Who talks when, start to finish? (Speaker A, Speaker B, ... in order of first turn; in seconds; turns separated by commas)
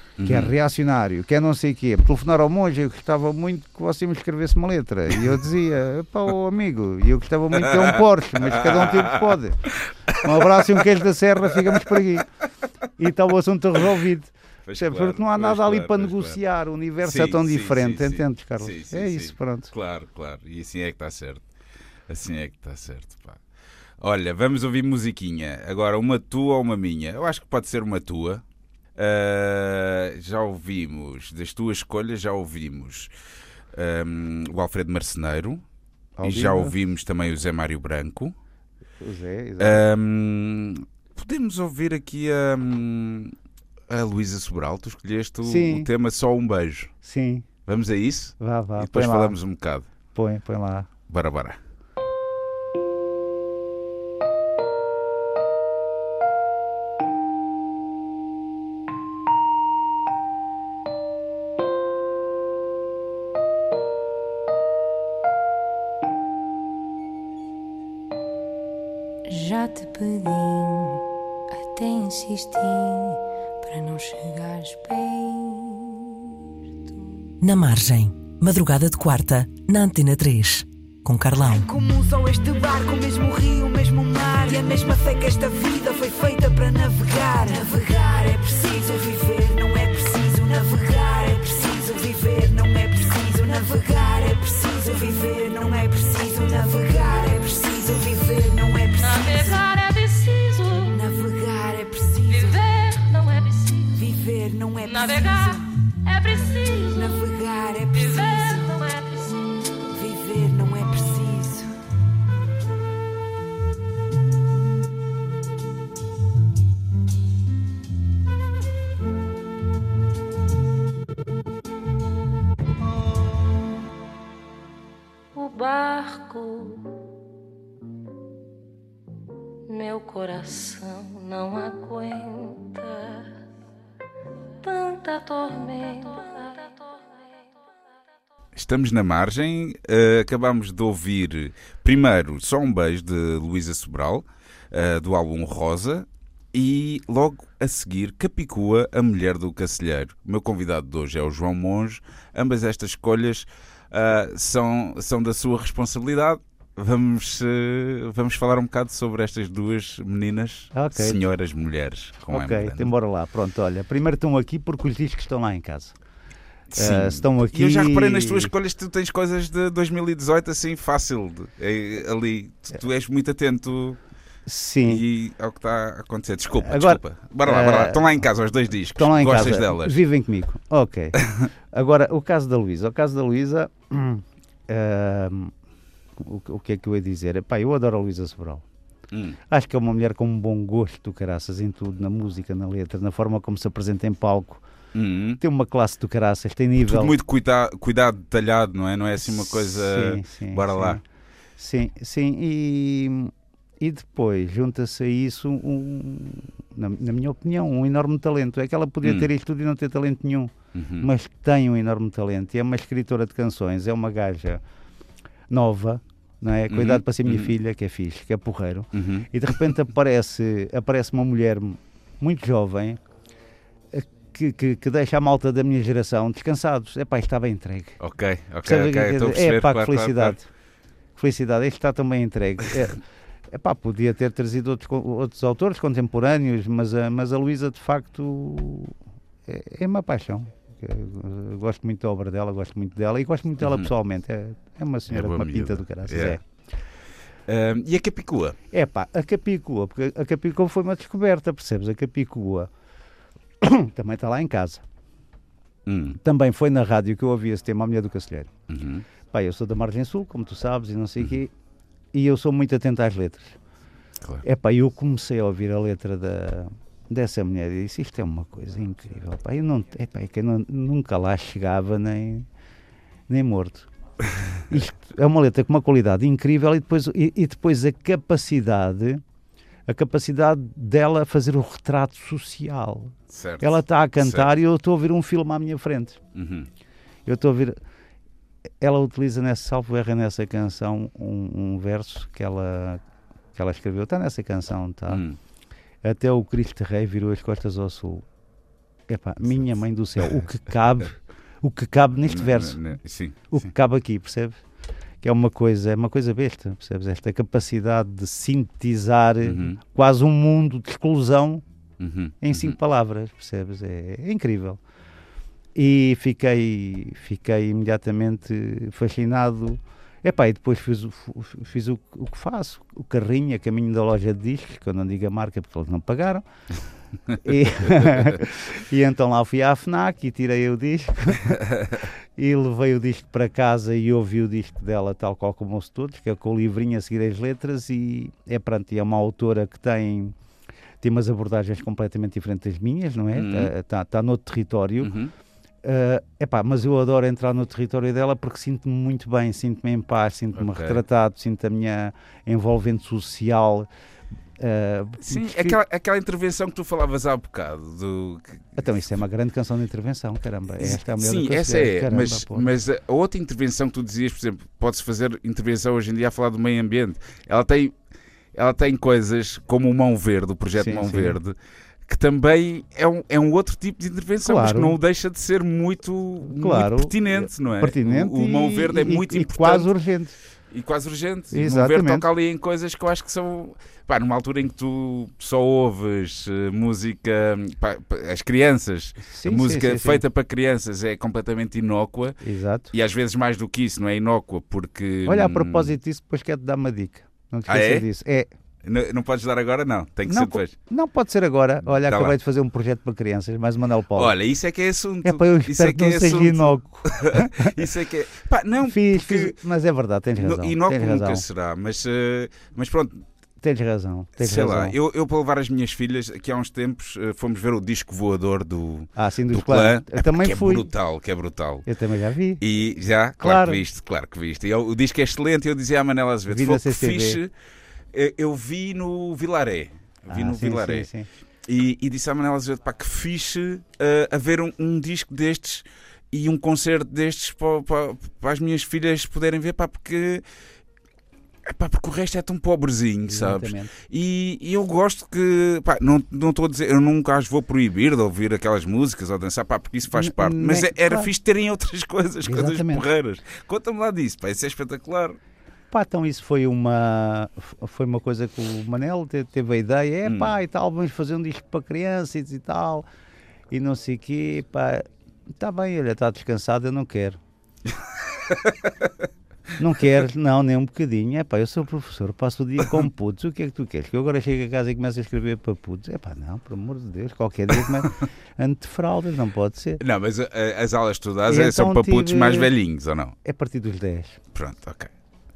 Speaker A: 0.2-0.5, Speaker B: 0.2-9.6, Speaker A: 7.5-10.8, Speaker B: 10.2-12.3, Speaker A: 11.5-12.1, Speaker B: 13.0-19.7, Speaker A: 14.7-16.4, Speaker A: 17.0-21.5, Speaker A: 22.1-23.4, Speaker A: 24.0-28.4, Speaker A: 29.0-33.1, Speaker A: 33.7-35.6, Speaker B: 36.2-36.7, Speaker A: 36.2-38.4, Speaker B: 39.0-39.9, Speaker A: 39.6-43.4, Speaker A: 43.9-46.9, Speaker B: 45.4-45.9, Speaker B: 47.0-47.5, Speaker A: 47.7-49.9, Speaker B: 48.4-49.4, Speaker B: 50.1-50.9, Speaker A: 51.1-51.6, Speaker C: 69.3-71.0, Speaker C: 71.5-76.0, Speaker D: 77.4-81.7, Speaker E: 81.4-99.6, Speaker C: 99.0-101.0, Speaker E: 100.9-102.6, Speaker C: 102.3-103.9, Speaker E: 103.9-105.7, Speaker C: 104.8-107.3, Speaker E: 106.9-108.7, Speaker C: 107.9-109.6, Speaker E: 109.9-111.7, Speaker C: 125.3-126.9, Speaker C: 129.7-133.3, Speaker C: 134.6-137.3, Speaker A: 138.6-162.9, Speaker B: 160.7-161.2, Speaker B: 162.3-166.0, Speaker A: 166.7-174.0, Speaker B: 166.8-168.5, Speaker B: 174.5-175.0, Speaker A: 174.8-180.0, Speaker B: 176.6-178.1, Speaker B: 178.9-181.2, Speaker A: 181.2-181.5, Speaker B: 181.7-185.5, Speaker B: 186.2-188.6, Speaker A: 189.1-189.4, Speaker B: 189.5-194.6, Speaker A: 194.9-195.4, Speaker B: 195.4-197.2, Speaker A: 196.8-201.0, Speaker B: 199.2-201.0, Speaker B: 201.6-214.6, Speaker A: 209.0-209.3, Speaker A: 210.7-211.1, Speaker B: 215.5-223.0, Speaker A: 216.7-217.5, Speaker A: 218.9-219.3, Speaker B: 223.9-228.0, Speaker A: 228.0-230.4, Speaker B: 228.6-230.5, Speaker B: 231.2-238.9, Speaker B: 239.5-246.4, Speaker A: 243.6-243.9, Speaker A: 245.1-246.4, Speaker A: 247.5-248.6, Speaker B: 248.7-252.7, Speaker B: 253.6-254.8, Speaker A: 255.9-256.2, Speaker B: 256.2-258.5, Speaker A: 258.7-259.1, Speaker B: 259.3-261.5, Speaker B: 262.1-263.6, Speaker B: 264.4-272.5, Speaker B: 273.3-273.9, Speaker B: 274.7-279.2, Speaker B: 279.9-286.2, Speaker A: 283.3-284.5, Speaker A: 286.3-286.7, Speaker B: 287.3-287.8, Speaker B: 288.8-293.0, Speaker B: 293.6-295.2, Speaker A: 295.1-295.4, Speaker B: 296.0-298.2, Speaker B: 299.1-302.8, Speaker A: 300.2-300.4, Speaker A: 302.2-303.6, Speaker B: 303.5-304.6, Speaker B: 305.2-311.6, Speaker A: 309.4-309.8, Speaker A: 312.0-312.8, Speaker B: 312.4-314.8, Speaker B: 315.8-326.4, Speaker B: 327.4-340.3, Speaker B: 341.0-345.1, Speaker A: 343.3-343.7, Speaker A: 345.0-345.3, Speaker B: 345.8-353.9, Speaker A: 350.6-351.0, Speaker B: 354.6-355.8, Speaker A: 355.2-358.9, Speaker B: 358.8-362.7, Speaker A: 360.8-368.0, Speaker A: 368.5-379.9, Speaker B: 370.7-371.4, Speaker B: 374.4-375.0, Speaker B: 376.4-380.4, Speaker A: 380.7-392.4, Speaker B: 381.5-382.2, Speaker B: 389.2-390.2, Speaker B: 392.4-392.9, Speaker A: 392.9-396.0, Speaker B: 395.3-398.5, Speaker A: 397.7-398.1, Speaker A: 398.8-400.7, Speaker B: 400.3-404.3, Speaker A: 402.0-402.4, Speaker A: 404.1-409.6, Speaker B: 405.2-407.8, Speaker B: 408.8-411.5, Speaker A: 410.4-413.2, Speaker B: 413.6-415.0, Speaker A: 414.4-421.9, Speaker B: 419.2-420.9, Speaker B: 421.9-422.6, Speaker A: 422.6-427.5, Speaker B: 423.4-423.8, Speaker B: 426.5-427.4, Speaker A: 428.1-431.1, Speaker B: 430.3-431.3, Speaker A: 431.7-440.4, Speaker A: 441.6-455.4, Speaker B: 443.3-443.9, Speaker B: 450.1-451.3, Speaker B: 452.4-453.1, Speaker B: 455.9-463.1, Speaker A: 460.2-460.6, Speaker B: 463.7-465.1, Speaker B: 465.6-467.4, Speaker A: 467.9-469.3, Speaker B: 469.8-480.0, Speaker A: 477.9-478.3, Speaker A: 480.0-483.4, Speaker B: 481.5-482.7, Speaker B: 483.4-484.4, Speaker A: 484.5-485.1